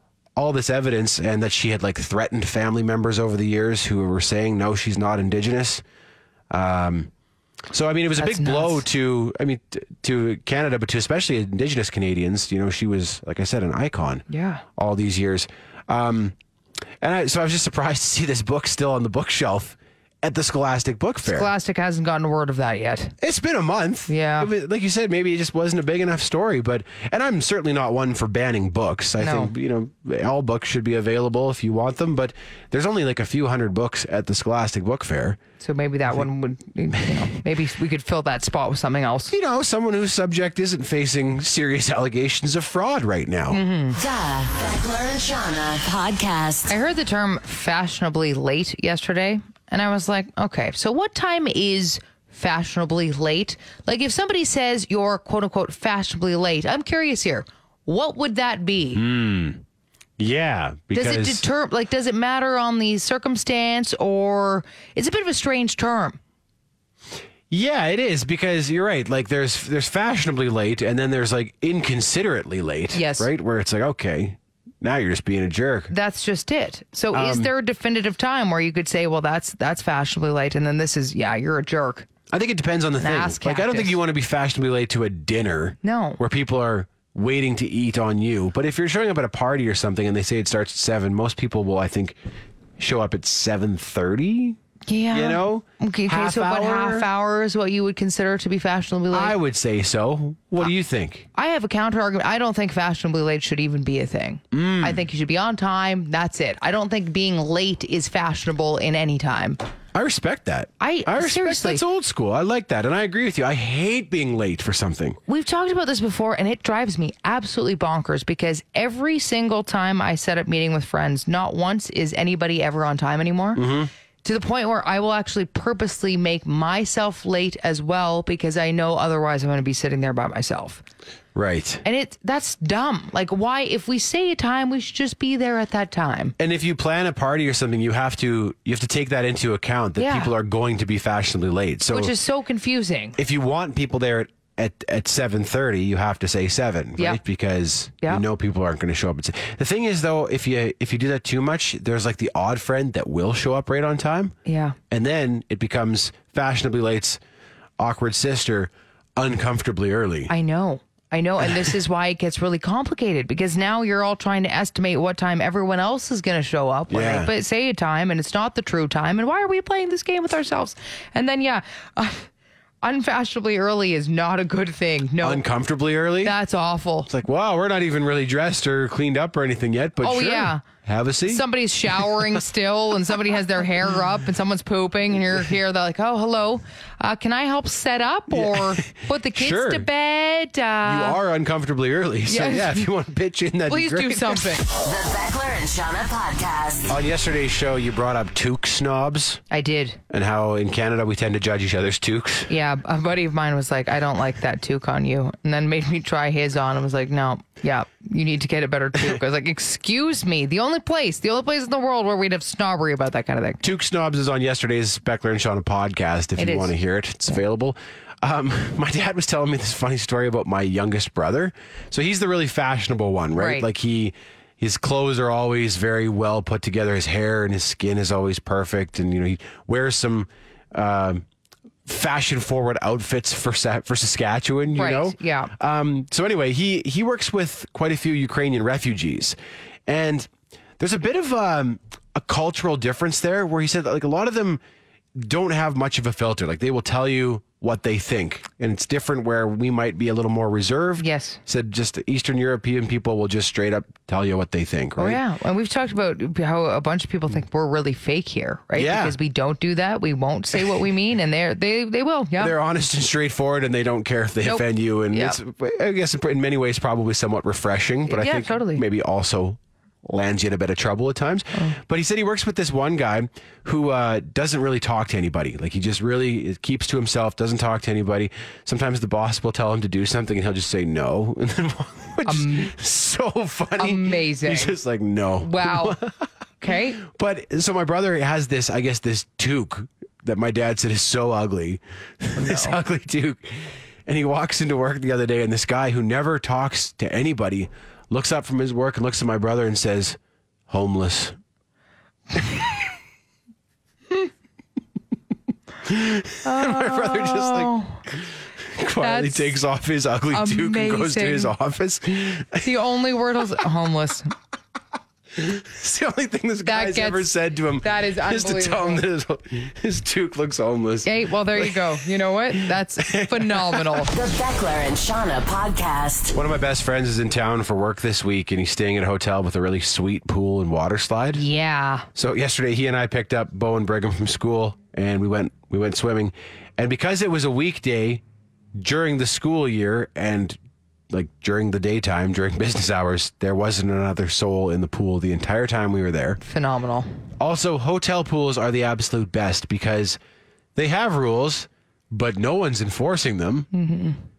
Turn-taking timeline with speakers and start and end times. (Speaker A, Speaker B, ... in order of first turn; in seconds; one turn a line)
Speaker A: 0.3-5.8
Speaker A: 6.5-7.1
Speaker A: 7.7-16.4
Speaker B: 8.2-8.8
Speaker B: 14.3-14.6
Speaker A: 17.0-21.5
Speaker B: 21.2-23.1
Speaker A: 23.2-35.4
Speaker B: 24.1-24.5
Speaker B: 29.2-29.5
Speaker B: 35.6-39.3
Speaker A: 39.3-43.6
Speaker B: 43.5-44.0
Speaker C: 43.9-46.7
Speaker B: 46.7-59.0
Speaker A: 58.9-59.6
Speaker A: 60.2-61.4
Speaker B: 60.9-66.2
Speaker A: 67.5-75.9
Speaker B: 72.9-73.3
Speaker B: 75.9-82.1
Speaker A: 77.1-77.5
Speaker A: 82.3-92.2
Speaker B: 83.0-84.0
Speaker B: 85.8-86.2
Speaker A: 92.8-94.6
Speaker B: 94.9-99.3
Speaker A: 95.1-97.1
Speaker A: 99.1-101.3
Speaker B: 101.3-109.6
Speaker A: 104.5-105.0
Speaker A: 109.9-115.2
Speaker B: 110.8-111.8
Speaker B: 115.3-123.6
Speaker A: 123.5-123.9
Speaker B: 124.2-130.8
Speaker A: 131.3-131.8
Speaker B: 131.8-136.3
Speaker A: 136.4-142.1
Speaker B: 140.0-140.3
Speaker B: 141.9-143.2
Speaker A: 143.2-154.3
Speaker B: 154.4-154.8
Speaker A: 154.9-157.2
Speaker A: 157.8-160.3
Speaker B: 160.3-172.3
Speaker A: 166.9-167.3
Speaker B: 172.8-175.4
Speaker A: 175.2-176.4
Speaker B: 176.2-177.1
Speaker A: 177.1-182.3
Speaker B: 180.0-180.6
Speaker B: 181.3-191.2
Speaker A: 188.3-189.9
Speaker A: 190.8-194.6
Speaker B: 192.3-192.9
Speaker B: 193.7-194.7
Speaker C: 194.8-196.9
Speaker A: 196.9-199.4
Speaker B: 199.5-200.0
Speaker A: 200.1-202.5
Speaker B: 202.5-213.6
Speaker A: 213.6-231.2
Speaker B: 216.4-216.7
Speaker B: 223.3-223.7
Speaker A: 231.8-239.3
Speaker B: 234.7-235.5
Speaker A: 239.9-244.6
Speaker A: 245.2-255.2
Speaker B: 251.0-251.4
Speaker B: 255.0-262.5
Speaker A: 258.7-259.1
Speaker A: 262.4-300.2
Speaker B: 264.4-265.4
Speaker B: 268.1-268.8
Speaker B: 282.2-282.7
Speaker B: 283.8-284.8
Speaker B: 285.4-286.0
Speaker B: 286.6-287.0
Speaker B: 292.4-292.8
Speaker A: 300.7-301.4
Speaker A: 305.8-308.2
Speaker B: 306.4-308.0
Speaker A: 308.7-312.7
Speaker B: 309.0-309.6
Speaker B: 310.3-311.5
Speaker B: 312.6-314.3
Speaker A: 315.3-321.8
Speaker B: 316.6-319.0
Speaker B: 321.0-324.1
Speaker A: 323.0-324.1
Speaker C: 324.1-326.4
Speaker A: 326.3-331.4
Speaker B: 331.3-332.1
Speaker A: 332.1-338.2
Speaker A: 338.8-340.6
Speaker A: 341.1-346.4
Speaker B: 346.4-347.1
Speaker A: 347.4-350.2
Speaker A: 350.8-353.7
Speaker B: 353.7-354.2